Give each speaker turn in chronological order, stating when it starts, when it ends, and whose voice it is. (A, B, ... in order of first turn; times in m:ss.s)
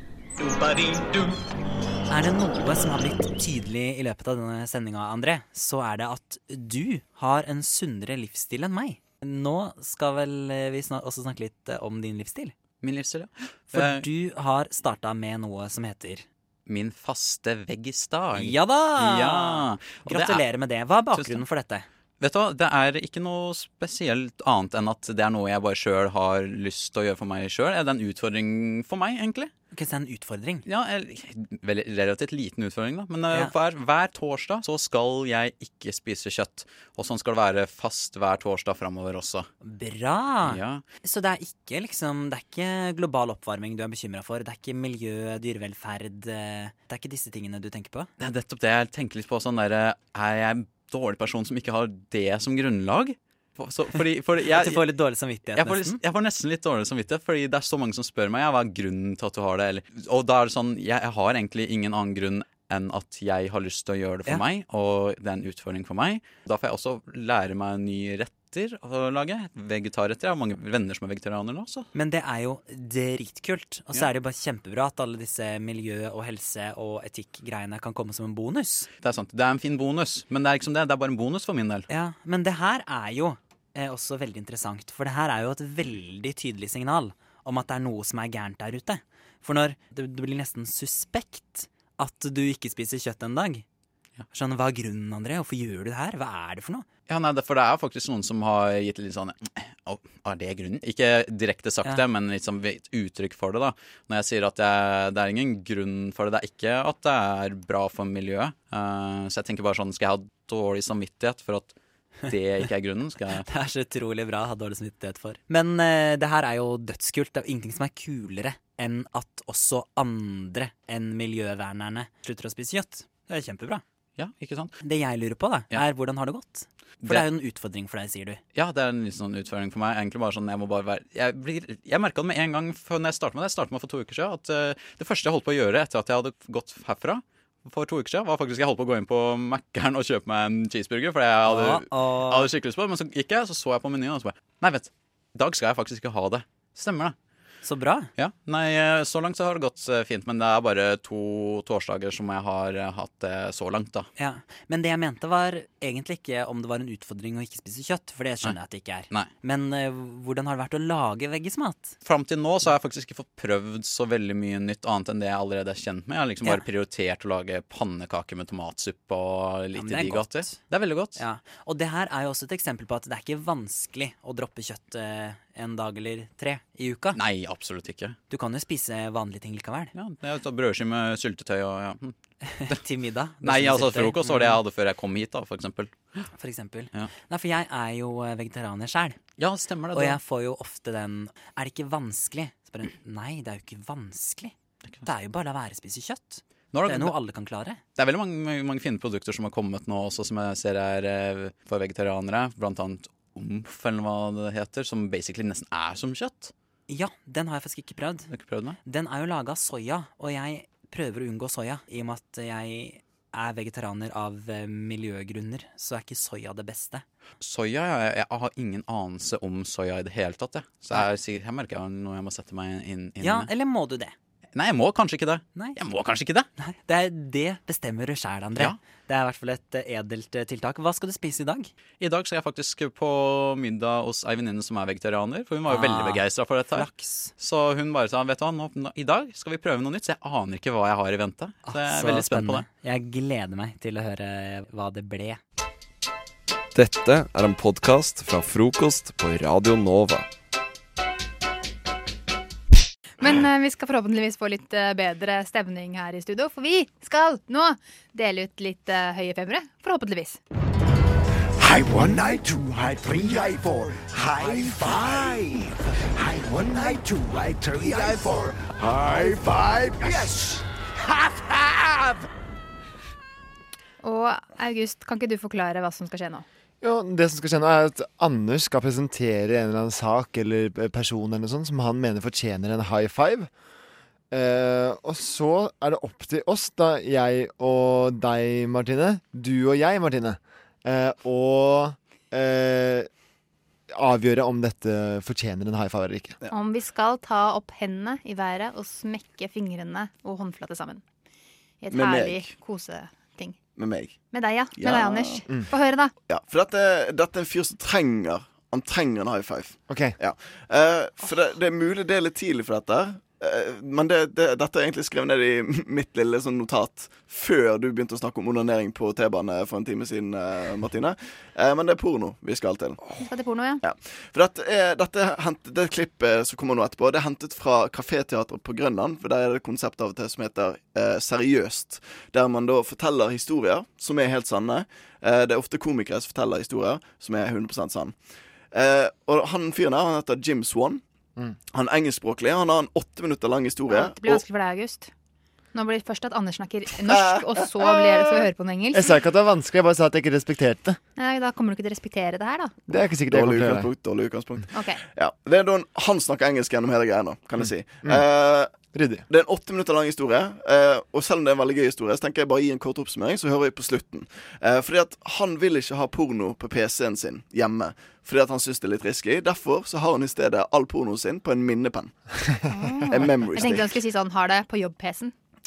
0:02.1-0:12.5 A
0:12.8-0:14.1 B
0:13.7-0:16.2 A
0:16.7-0:20.5 B
0:18.4-0:21.9 A
0:21.1-0:21.4 B
0:22.2-0:29.5 B
0:29.7-0:30.6 A
0:30.7-0:39.5 B
0:39.6-0:48.1 A
0:40.4-0:40.8 B
0:48.2-0:54.9 B
0:54.4-0:56.0 A
0:55.5-1:11.9 B
1:11.9-1:18.9 A
1:19.0-1:21.9 B
1:21.9-1:33.6 A
1:34.3-1:36.9 A
1:37.1-1:51.8 B
1:52.3-1:53.4 B
1:53.4-2:03.8 A
2:04.2-2:04.8 B
2:04.8-2:08.4 A
2:07.0-2:07.3 B
2:08.5-2:27.1 B
2:21.4-2:22.5 A
2:27.6-2:28.1 A
2:28.2-2:34.1 B
2:34.2-2:42.0 A
2:42.0-2:51.2 B
2:49.8-2:50.6 A
2:51.2-2:57.2 A
2:57.1-2:58.2 B
2:58.3-2:59.9 A
3:00.0-3:02.2 B
3:02.4-3:04.6 A
3:03.4-3:06.3 B
3:06.3-3:09.2 A
3:09.4-3:10.2 B
3:09.9-3:17.8 A
3:16.7-3:17.2 B
3:18.0-3:26.5 B
3:26.9-3:28.3 A
3:28.3-3:28.8 B
3:28.8-3:37.0 A
3:37.4-3:43.5 B
3:43.2-3:44.1 A
3:44.6-3:46.5 B
3:45.5-3:45.8 A
3:46.6-3:51.7 A
3:52.0-4:02.7 B
3:55.7-3:57.3 A
4:01.6-4:05.4 A
4:06.8-4:10.3 C
4:13.2-4:20.4 D
4:21.6-4:32.2 E
4:34.0-4:36.5 D
4:36.8-4:43.5 F
4:44.3-4:53.1 F
4:53.9-4:56.4 F
4:56.5-5:01.0 D
5:01.8-5:03.6 D
5:01.9-5:02.5 G
5:03.8-5:04.2 G
5:04.3-5:06.1 D
5:04.8-5:05.4 G
5:06.3-5:23.0 G
5:09.9-5:10.2 F
5:23.2-5:23.8 D
5:23.8-5:38.1 G
5:38.7-5:41.0 G
5:41.7-5:44.4 G
5:43.9-5:45.1 D
5:45.7-5:49.1 D
5:47.0-5:48.5 G
5:49.0-5:51.0 F
5:51.2-5:52.7 D
5:52.9-5:53.9 F
5:53.3-6:12.1 G
5:54.7-5:55.0 D
5:58.9-5:59.2 F
6:12.7-6:15.3 D
6:13.1-6:14.0 G